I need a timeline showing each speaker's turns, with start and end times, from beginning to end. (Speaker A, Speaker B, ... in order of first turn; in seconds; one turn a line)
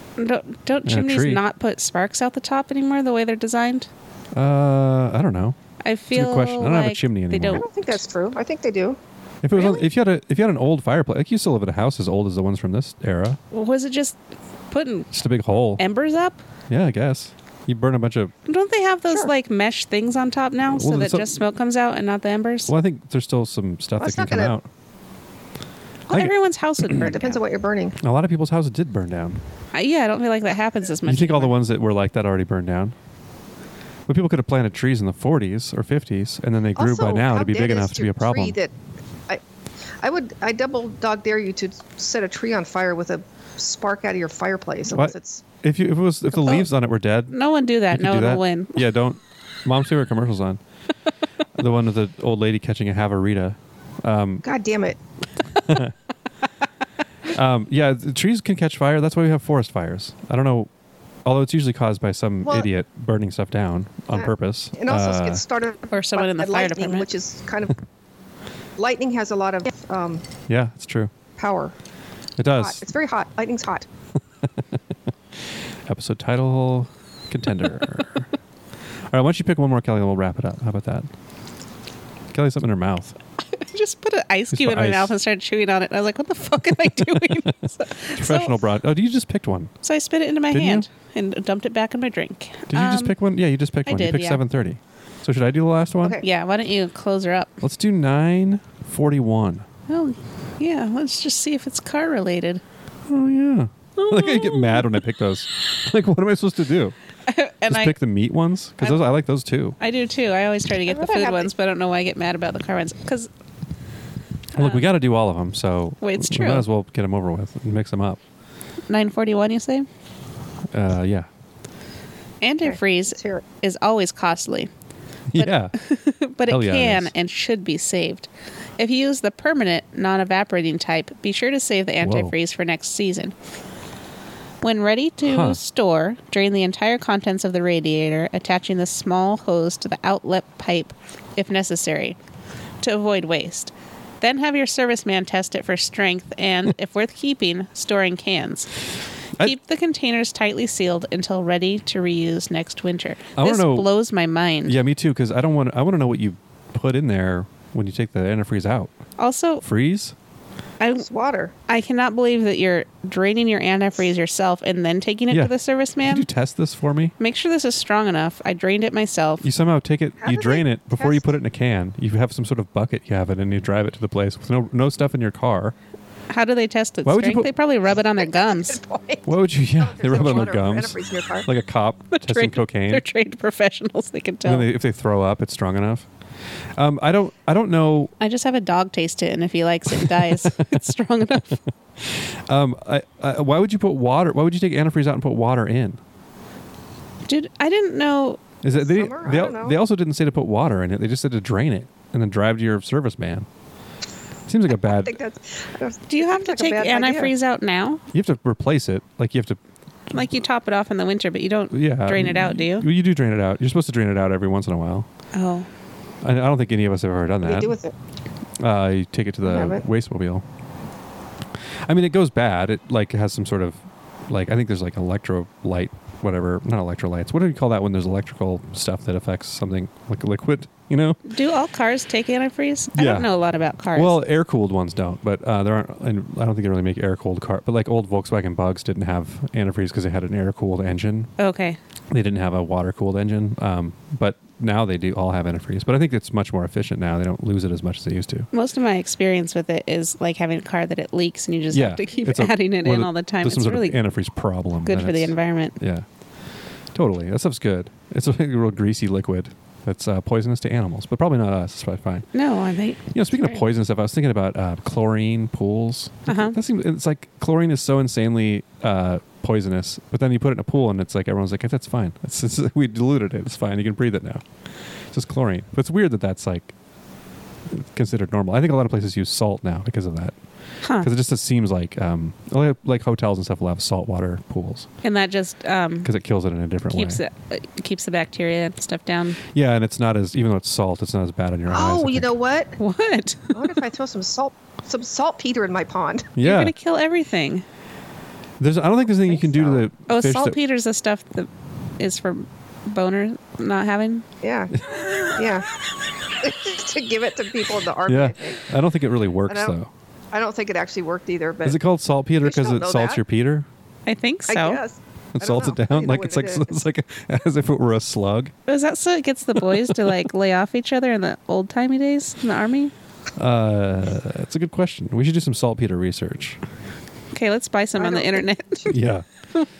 Speaker A: 0.2-3.9
Speaker B: 0.8-1.4
Speaker B: 4.3-5.6
Speaker A: 5.8-7.9
Speaker B: 6.1-7.7
Speaker C: 7.5-9.0
Speaker B: 9.4-13.4
Speaker A: 13.5-14.2
Speaker A: 14.7-15.1
Speaker B: 15.1-15.8
Speaker A: 15.8-16.4
Speaker B: 16.7-18.3
Speaker A: 18.4-22.7
Speaker B: 20.7-21.3
Speaker B: 22.7-24.7
Speaker C: 24.0-24.6
Speaker A: 26.1-27.4
Speaker C: 27.0-28.0
Speaker B: 28.0-29.4
Speaker A: 29.7-31.6
Speaker B: 31.0-32.9
Speaker B: 34.1-38.5
Speaker C: 36.8-38.7
Speaker C: 40.0-45.4
Speaker B: 44.9-47.4
Speaker C: 46.4-46.6
Speaker A: 47.3-48.8
Speaker B: 47.9-50.6
Speaker B: 51.5-54.4
Speaker C: 54.4-55.0
Speaker B: 55.6-55.9
Speaker B: 57.3-60.7
Speaker B: 61.2-65.4
Speaker C: 64.1-67.8
Speaker A: 65.9-67.1
Speaker C: 68.8-70.2
Speaker B: 70.5-71.1
Speaker C: 71.4-71.7
Speaker B: 72.4-72.8
Speaker C: 72.6-73.9
Speaker B: 75.9-78.3
Speaker B: 79.1-81.1
Speaker B: 82.3-83.1
Speaker A: 83.5-88.5
Speaker B: 84.5-85.1
Speaker B: 88.1-89.7
Speaker A: 89.8-93.1
Speaker B: 90.5-90.8
Speaker B: 92.7-96.2
Speaker A: 93.8-94.4
Speaker C: 96.0-96.3
Speaker A: 96.2-97.6
Speaker B: 97.6-99.7
Speaker A: 99.9-102.6
Speaker B: 103.1-106.9
Speaker A: 104.0-104.9
Speaker A: 107.3-107.9
Speaker B: 107.7-109.8
Speaker A: 109.8-113.3
Speaker C: 110.9-111.5
Speaker A: 114.5-114.9
Speaker B: 114.5-118.2
Speaker A: 116.0-116.7
Speaker A: 118.9-119.9
Speaker B: 120.7-121.3
Speaker A: 122.4-124.7
Speaker C: 122.6-123.4
Speaker B: 125.3-125.7
Speaker A: 125.3-133.3
Speaker B: 126.5-127.1
Speaker B: 132.0-132.3
Speaker A: 134.6-142.2
Speaker B: 135.2-135.6
Speaker A: 142.8-148.7
Speaker A: 149.4-154.8
Speaker B: 153.4-153.9
Speaker B: 154.6-158.9
Speaker A: 159.2-159.6
Speaker B: 159.6-160.1
Speaker A: 160.8-161.1
Speaker C: 160.9-161.5
Speaker A: 161.7-166.3
Speaker B: 165.3-167.1
Speaker A: 167.2-169.4
Speaker B: 169.4-175.7
Speaker C: 170.2-171.2
Speaker A: 176.3-178.8
Speaker B: 177.0-177.5
Speaker C: 178.2-181.5
Speaker B: 179.2-183.0
Speaker A: 182.1-184.7
Speaker B: 184.4-186.1
Speaker B: 186.8-188.1
Speaker A: 188.2-191.6
Speaker B: 190.0-190.6
Speaker B: 192.0-196.0
Speaker A: 197.2-198.4
Speaker B: 198.6-203.5
Speaker C: 198.8-199.8
Speaker B: 204.5-205.2
Speaker C: 204.7-207.3
Speaker A: 206.1-208.0
Speaker B: 208.1-209.6
Speaker A: 210.1-212.9
Speaker B: 211.7-215.1
Speaker A: 215.3-215.7
Speaker B: 216.2-217.8
Speaker C: 217.4-217.9
Speaker B: 218.6-220.4
Speaker C: 219.4-219.8
Speaker B: 221.9-231.2
Speaker A: 231.2-234.2
Speaker B: 232.9-233.3
Speaker B: 233.9-241.3
Speaker A: 241.4-241.8
Speaker B: 242.1-248.5
Speaker A: 248.5-254.0
Speaker B: 251.7-256.1
Speaker A: 254.8-255.8
Speaker B: 256.9-262.3
Speaker A: 262.3-263.5
Speaker B: 263.1-274.4
Speaker A: 266.3-266.6
Speaker B: 275.1-276.7
Speaker B: 277.7-280.4
Speaker A: 280.8-281.1
Speaker B: 281.0-284.9
Speaker A: 285.0-286.1
Speaker B: 286.0-287.2
Speaker A: 286.9-289.4
Speaker B: 289.5-292.3
Speaker C: 291.7-292.8
Speaker A: 292.8-293.8
Speaker C: 293.5-296.3
Speaker B: 296.4-296.7
Speaker A: 296.4-297.6
Speaker B: 298.6-300.6
Speaker C: 299.2-299.9
Speaker A: 300.1-304.2
Speaker C: 304.4-304.7
Speaker B: 304.8-305.2
Speaker C: 305.3-308.6
Speaker B: 308.1-309.9
Speaker C: 309.5-309.8
Speaker C: 310.3-311.8
Speaker B: 311.6-313.7
Speaker C: 312.4-313.2
Speaker A: 314.1-314.8
Speaker C: 314.5-316.8
Speaker B: 315.3-318.5
Speaker A: 318.7-322.9
Speaker B: 319.6-320.0
Speaker B: 323.4-326.6
Speaker A: 327.3-329.0
Speaker C: 328.0-328.9
Speaker B: 328.9-329.2